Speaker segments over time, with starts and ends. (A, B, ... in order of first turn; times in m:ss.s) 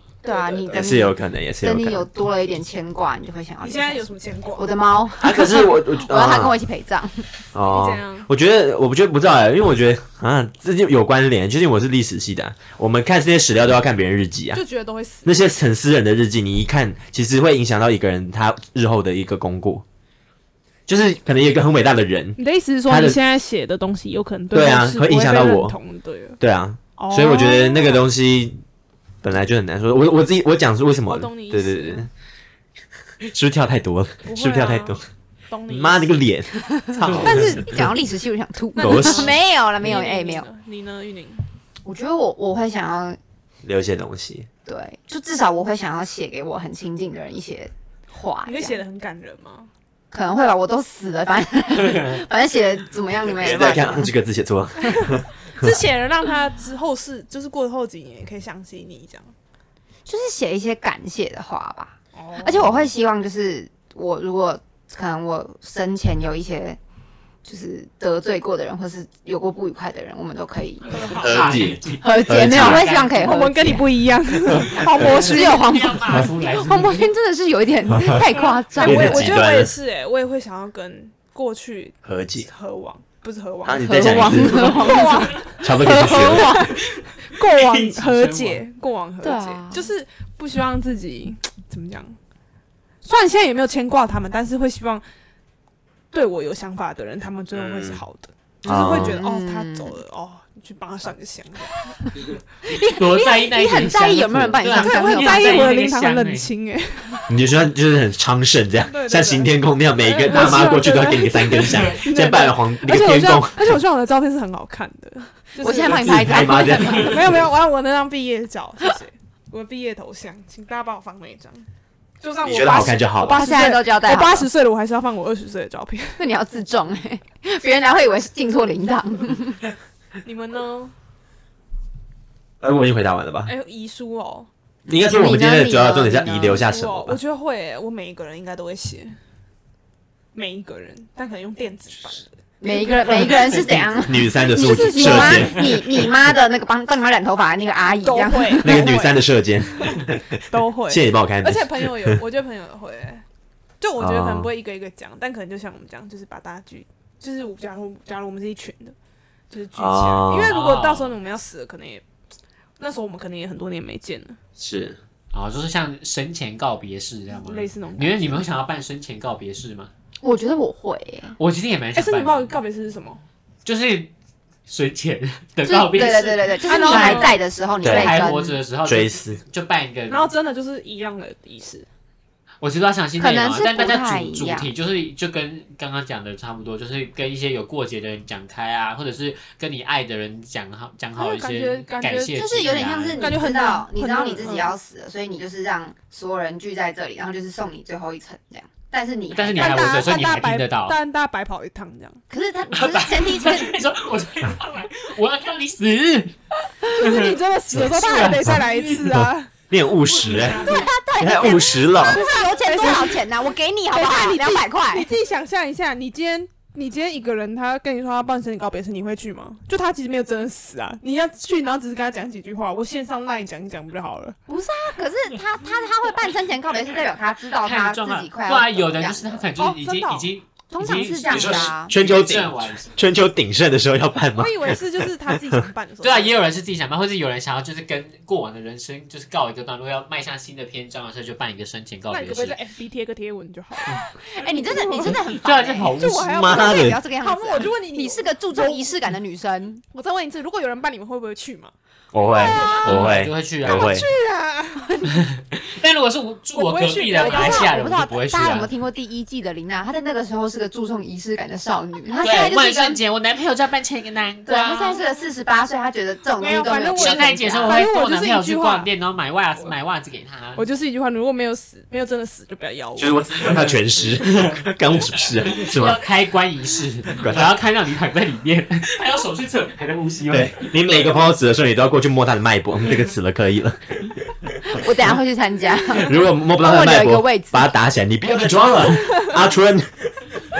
0:00.2-0:04.0 A
0:00.2-0:00.9 B
0:00.7-0:02.1 C
0:03.6-0:04.7 B
0:04.6-0:07.2 A
0:05.2-0:06.5 C
0:07.5-0:14.6 C
0:07.7-0:08.3 B
0:14.5-0:15.3 B
0:15.2-0:19.8 C
0:20.9-0:23.2 C
0:22.4-0:26.4 B
0:24.5-0:25.8 C
0:26.4-0:28.6 C
0:27.0-0:28.1 B
0:29.2-0:32.1 C
0:31.0-0:32.0 B
0:33.2-0:35.0 C
0:34.2-0:35.0 B
0:35.5-0:36.2 B
0:35.7-0:37.8 C
0:37.1-0:40.5 A
0:37.2-0:37.6 B
0:38.8-0:41.4 B
0:38.8-0:39.3 C
0:41.8-0:43.2 A
0:43.6-0:44.5 C
0:44.6-0:48.8 A
0:48.4-0:49.7 B
0:50.1-0:54.1 A
0:53.2-0:55.8 C
0:55.6-0:59.3 B
1:00.0-1:06.8 A
1:02.1-1:02.8 B
1:07.4-1:11.2 A
1:10.9-1:11.4 B
1:10.9-1:13.4 D
1:11.2-1:12.9 C
1:12.0-1:13.9 A
1:13.1-1:15.7 B
1:14.8-1:17.1 D
1:15.0-1:19.4 A
1:18.4-1:32.2 B
1:18.8-1:19.8 C
1:22.0-1:22.5 C
1:23.6-1:25.0 C
1:23.8-1:26.7 A
1:25.6-1:26.6 C
1:27.4-1:28.6 D
1:29.2-1:29.8 A
1:33.0-1:35.0 B
1:36.1-1:42.0 B
1:37.5-1:38.0 C
1:38.6-1:40.0 A
1:38.6-1:39.2 C
1:42.6-1:45.7 A
1:42.9-1:46.5 D
1:44.7-1:47.2 B
1:47.3-1:53.8 C
1:48.9-2:01.7 B
1:55.6-1:57.2 A
1:55.8-1:57.4 C
2:02.2-2:06.2 B
2:02.4-2:03.6 C
2:03.2-2:04.5 A
2:06.2-2:09.6 A
2:10.2-2:10.9 B
2:12.6-2:13.5 C
2:13.4-2:14.5 B
2:14.9-2:17.2 C
2:14.9-2:16.6 A
2:16.6-2:19.2 B
2:20.3-2:23.1 B
2:22.6-2:28.9 A
2:23.9-2:25.8 C
2:24.6-2:25.6 B
2:28.0-2:33.2 B
2:28.6-2:32.2 C
2:33.8-2:38.9 B
2:34.0-2:34.5 C
2:39.5-2:42.0 B
2:39.7-2:40.6 C
2:40.4-2:41.2 D
2:42.8-2:44.4 B
2:44.6-2:45.0 C
2:45.3-2:49.9 D
2:47.3-2:48.4 B
2:50.2-2:51.4 A
2:51.4-2:52.5 D
2:51.9-2:53.2 B
2:53.6-2:54.1 D
2:54.7-3:00.3 D
2:55.6-2:58.6 A
2:56.7-2:57.4 B
2:57.8-2:58.2 C
2:58.8-2:59.4 C
3:00.1-3:01.9 B
3:02.6-3:13.4 D
3:03.2-3:04.7 A
3:11.2-3:12.4 B
3:12.3-3:20.3 A
3:13.2-3:14.7 B
3:19.4-3:21.0 D
3:19.6-3:22.2 B
3:22.3-3:23.7 A
3:22.7-3:29.1 D
3:26.9-3:29.5 B
3:29.7-3:30.7 C
3:30.1-3:30.9 B
3:30.6-3:35.1 A
3:31.2-3:32.2 C
3:32.0-3:33.2 B
3:33.9-3:44.4 B
3:44.5-3:49.4 A
3:47.6-3:52.9 D
3:49.6-3:50.3 B
3:50.7-3:51.9 A
3:51.3-3:54.8 C
3:54.3-3:56.4 B
3:56.0-4:02.6 D
4:02.1-4:05.2 B
4:04.3-4:09.8 A
4:05.4-4:06.5 D
4:05.9-4:08.9 B
4:06.3-4:07.0 C
4:09.9-4:11.7 B
4:12.1-4:14.1 C
4:12.4-4:12.9 A
4:12.4-4:13.1 B
4:12.5-4:14.0 D
4:13.6-4:15.1 B
4:15.0-4:18.7 D
4:16.5-4:17.7 B
4:17.2-4:23.0 A
4:22.2-4:25.0 D
4:24.5-4:27.9 A
4:26.4-4:28.9 B
4:27.0-4:30.6 D
4:30.6-4:33.5 B
4:33.0-4:36.0 C
4:34.2-4:34.6 D
4:35.4-4:40.8 D
4:37.1-4:37.5 C
4:40.3-4:44.8 C
4:44.7-4:47.7 A
4:45.9-4:49.9 C